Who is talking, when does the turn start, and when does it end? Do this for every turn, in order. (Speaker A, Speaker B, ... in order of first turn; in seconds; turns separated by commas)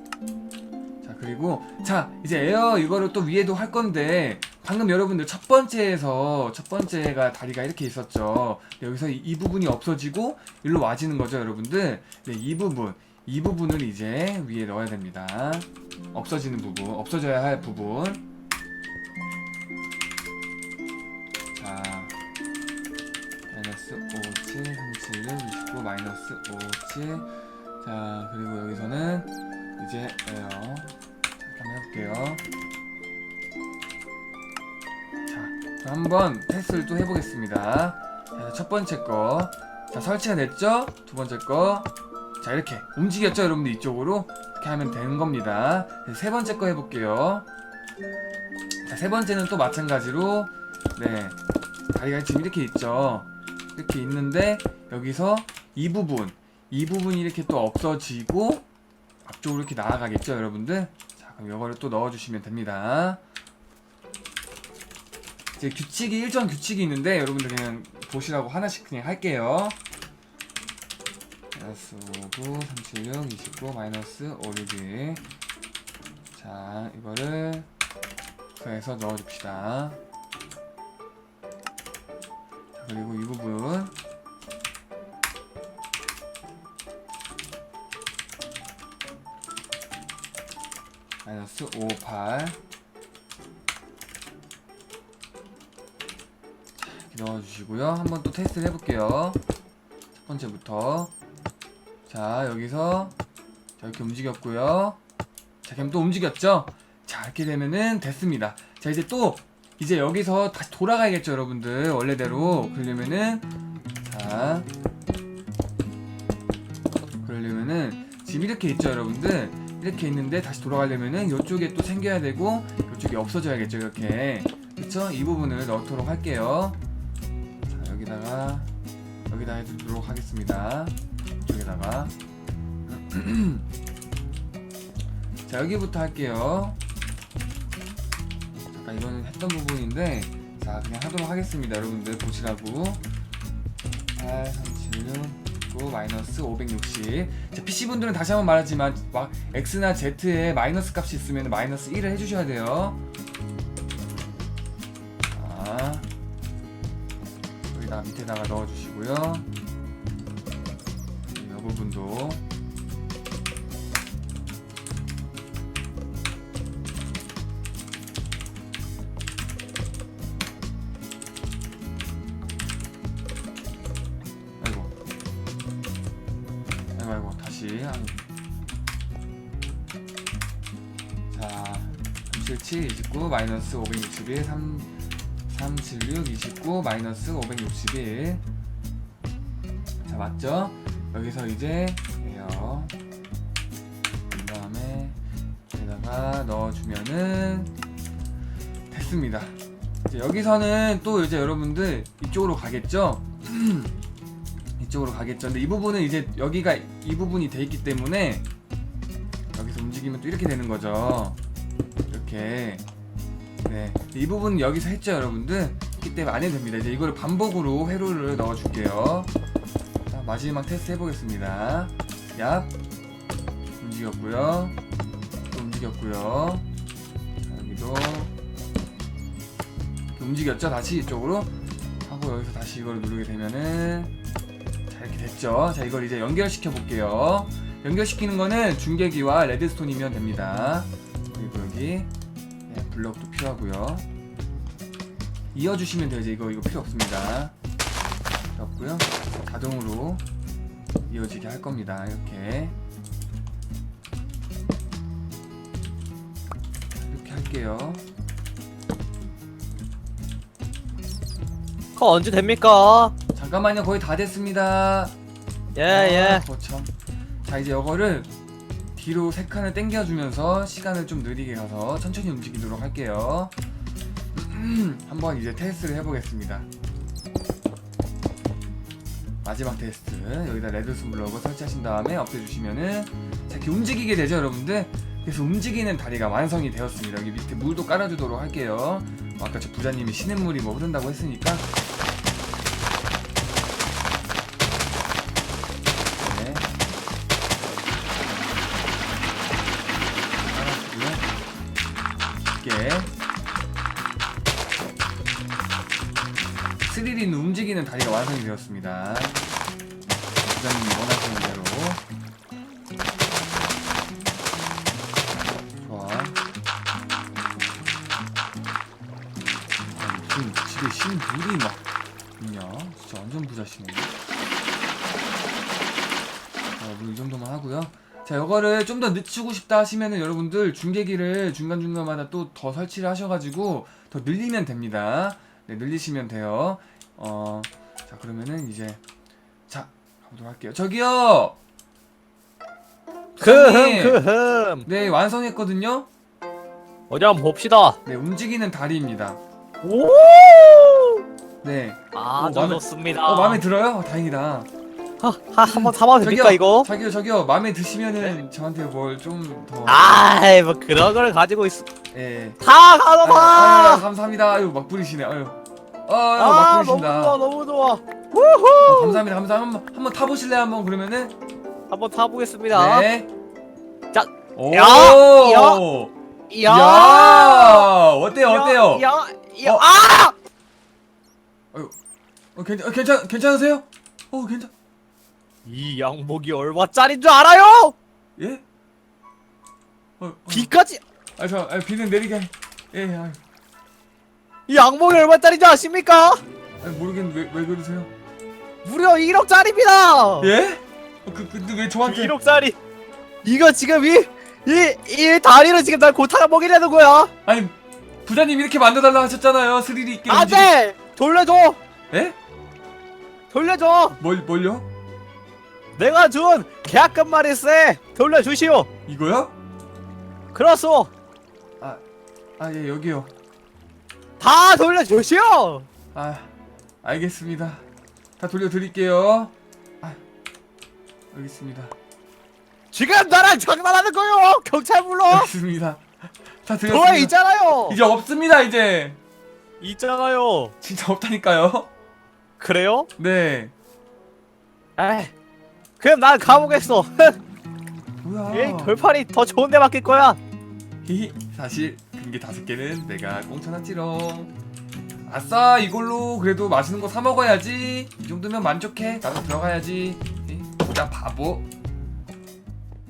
Speaker A: 1.0-18.2, Speaker A: 21.5-22.1, Speaker A: 23.5-27.3, Speaker A: 27.8-32.4, Speaker A: 35.3-41.9, Speaker A: 42.4-47.5, Speaker A: 48.8-51.4, Speaker A: 51.9-58.6, Speaker A: 59.2-63.2, Speaker A: 65.5-69.8, Speaker A: 71.5-75.2, Speaker A: 76.3-77.7, Speaker A: 78.5-80.0, Speaker A: 82.7-83.9, Speaker A: 91.2-92.6, Speaker A: 96.8-99.4, Speaker A: 100.1-101.1, Speaker A: 102.1-103.1, Speaker A: 103.8-105.0, Speaker A: 105.6-113.5, Speaker A: 114.0-114.7, Speaker A: 117.2-126.8, Speaker A: 127.7-128.7, Speaker A: 129.3-132.1, Speaker A: 132.8-133.7, Speaker A: 135.4-136.8, Speaker A: 138.7-143.0, Speaker A: 144.2-153.0, Speaker A: 155.3-156.1, Speaker A: 157.7-159.5, Speaker A: 161.3-162.4, Speaker A: 174.6-174.9, Speaker A: 176.9-178.2, Speaker A: 181.3-184.9, Speaker A: 185.5-188.4, Speaker A: 190.0-192.9, Speaker A: 194.3-195.2, Speaker A: 195.7-197.7, Speaker A: 198.9-199.5, Speaker A: 200.1-203.9, Speaker A: 204.8-208.4, Speaker A: 209.5-211.4, Speaker A: 212.1-212.8, Speaker A: 213.6-219.3, Speaker A: 220.1-222.7, Speaker A: 223.8-224.8, Speaker A: 225.5-226.7, Speaker A: 227.4-228.3, Speaker A: 230.2-234.1, Speaker A: 234.9-242.1, Speaker A: 242.7-244.1, Speaker A: 245.5-247.5, Speaker A: 248.6-250.2, Speaker A: 251.1-252.7, Speaker A: 256.9-258.0, Speaker B: 261.9-263.1, Speaker A: 263.3-265.1, Speaker B: 265.7-266.4, Speaker A: 265.9-266.9, Speaker A: 267.4-268.3, Speaker A: 268.9-273.5, Speaker A: 274.3-276.7, Speaker A: 279.4-291.7, Speaker A: 296.2-296.7, Speaker A: 300.4-301.3, Speaker A: 302.5-303.1, Speaker A: 306.8-309.4, Speaker A: 310.4-312.0, Speaker A: 315.8-316.4, Speaker A: 319.9-321.8, Speaker A: 322.4-324.1, Speaker A: 326.8-339.0, Speaker A: 339.7-341.6, Speaker A: 343.4-344.2, Speaker B: 343.4-344.9, Speaker A: 344.8-346.1, Speaker B: 347.1-348.0, Speaker A: 348.0-349.4, Speaker B: 349.8-351.2, Speaker A: 351.6-354.7, Speaker B: 352.1-353.6, Speaker B: 355.2-356.9, Speaker A: 355.6-360.3, Speaker B: 359.9-361.9, Speaker A: 362.1-362.6, Speaker B: 362.6-364.0, Speaker A: 363.2-367.4, Speaker B: 366.4-369.2, Speaker A: 368.8-371.3, Speaker B: 371.9-373.1, Speaker A: 372.7-373.3, Speaker B: 374.1-375.8, Speaker A: 374.5-376.1, Speaker B: 376.5-377.9, Speaker A: 376.6-379.1, Speaker B: 378.4-380.3, Speaker A: 382.5-384.7, Speaker B: 385.6-387.9, Speaker A: 388.4-388.6, Speaker A: 390.2-390.7, Speaker B: 390.5-391.0, Speaker A: 391.4-393.4, Speaker B: 394.7-396.4, Speaker A: 396.8-398.1, Speaker B: 398.8-400.5, Speaker A: 400.4-402.4, Speaker B: 402.0-402.8, Speaker B: 403.4-407.3, Speaker A: 407.4-410.7, Speaker B: 410.3-411.8, Speaker A: 412.1-412.4, Speaker B: 413.5-414.2, Speaker A: 414.2-414.9, Speaker B: 416.0-418.9, Speaker A: 419.1-419.5, Speaker B: 420.5-421.1, Speaker A: 422.6-423.3, Speaker B: 424.4-425.9, Speaker A: 426.1-426.5, Speaker A: 427.0-427.8, Speaker A: 428.4-430.2, Speaker A: 431.3-431.9, Speaker B: 432.9-435.5, Speaker A: 435.3-437.3, Speaker B: 436.9-438.0, Speaker A: 437.9-439.2, Speaker B: 439.8-440.7, Speaker A: 440.8-441.9, Speaker B: 442.6-443.1, Speaker A: 443.2-443.7, Speaker B: 445.0-445.3, Speaker B: 446.0-447.4, Speaker A: 448.2-449.0, Speaker B: 448.5-450.4, Speaker A: 451.0-454.5, Speaker A: 455.2-461.7